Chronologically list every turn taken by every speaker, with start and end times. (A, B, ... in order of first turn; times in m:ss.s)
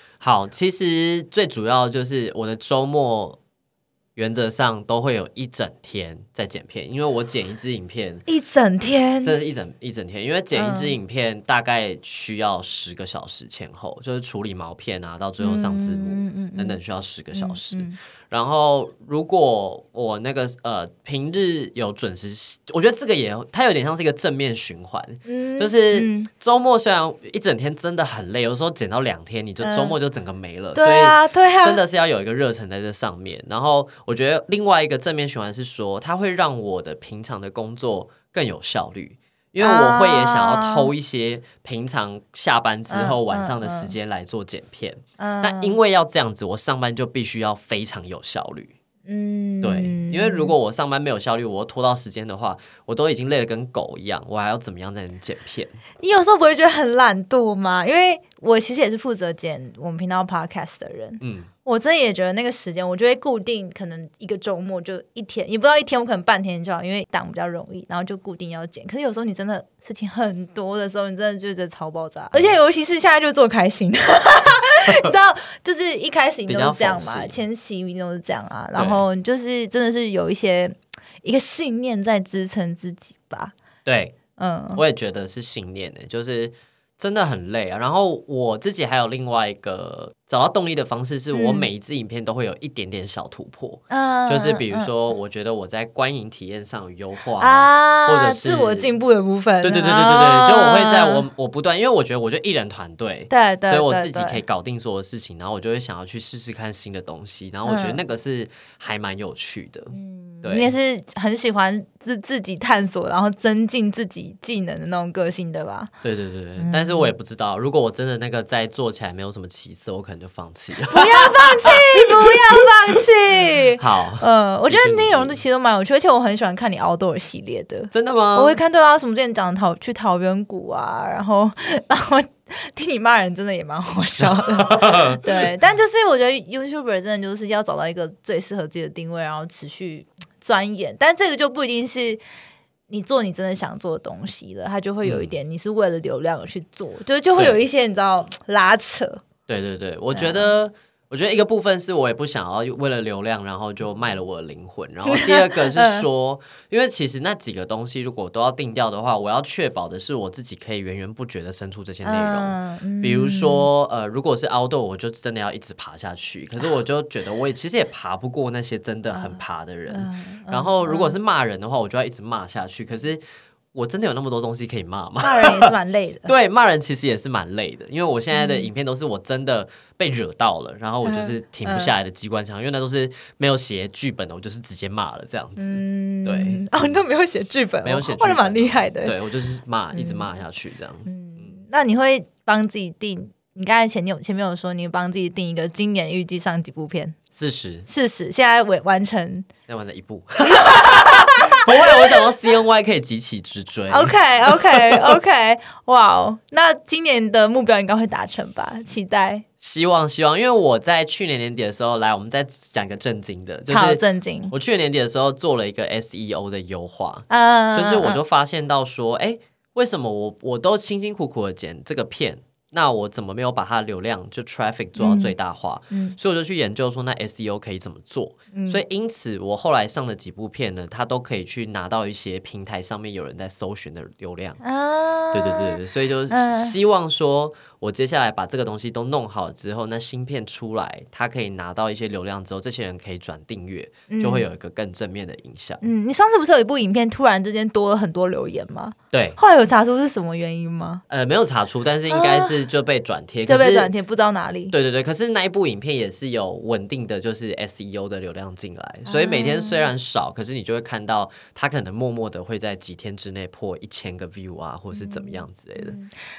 0:00.2-0:03.4 A
0:04.2-0:08.2 A
0:08.3-0:09.4 B
0:09.2-0:48.7 A
0:10.5-0:11.0 B
0:15.4-0:16.8 B
0:17.3-0:18.0 B
0:25.3-0:26.3 B
0:29.6-0:30.0 B
0:30.8-0:31.8 B
0:39.6-0:40.9 B
0:42.9-0:44.0 B
0:45.2-0:45.8 B
0:49.1-0:50.5 B
0:49.6-0:55.8 A
0:56.0-1:23.6 B
1:01.2-1:01.5 A
1:14.9-1:15.1 A
1:16.5-1:17.4 A
1:18.8-1:19.0 A
1:23.8-1:24.2 A
1:24.4-1:24.8 B
1:24.8-1:38.9 A
1:31.3-1:31.7 B
1:33.9-1:34.9 B
1:37.4-1:41.2 B
1:39.6-1:50.7 A
1:43.3-1:44.4 B
1:47.6-1:48.0 B
1:49.9-1:55.9 B
1:56.0-2:02.7 A
1:56.6-1:57.1 B
2:00.9-2:22.2 B
2:03.8-2:05.4 A
2:07.9-2:08.6 A
2:14.2-2:15.3 A
2:22.9-2:29.2 B
2:25.0-2:25.3 A
2:29.5-2:53.2 A
2:30.1-2:30.5 B
2:35.1-2:36.1 B
2:42.0-2:43.7 B
2:49.1-2:51.2 B
2:53.7-2:55.7 A
2:55.2-2:56.3 B
2:56.3-3:07.0 A
2:58.3-2:58.7 B
3:01.0-3:01.9 B
3:05.6-3:09.2 B
3:07.8-3:11.6 A
3:09.9-3:10.3 B
3:11.1-3:17.2 B
3:17.4-3:17.9 A
3:17.9-3:19.5 B
3:19.7-3:25.2 A
3:20.4-3:22.0 B
3:23.9-3:29.4 B
3:29.6-3:54.6 A
3:33.7-3:34.5 B
3:37.3-3:38.2 B
3:45.0-3:45.3 B
3:45.9-3:46.2 B
3:48.5-3:48.8 B
3:54.6-3:56.7 B
3:55.3-4:05.9 A
4:04.1-4:04.5 B
4:05.8-4:11.0 B
4:09.1-4:09.4 A
4:11.1-4:13.9 A
4:12.1-4:12.6 B
4:13.5-4:14.7 B
4:14.7-4:26.0 A
4:19.1-4:19.9 B
4:24.9-4:26.1 B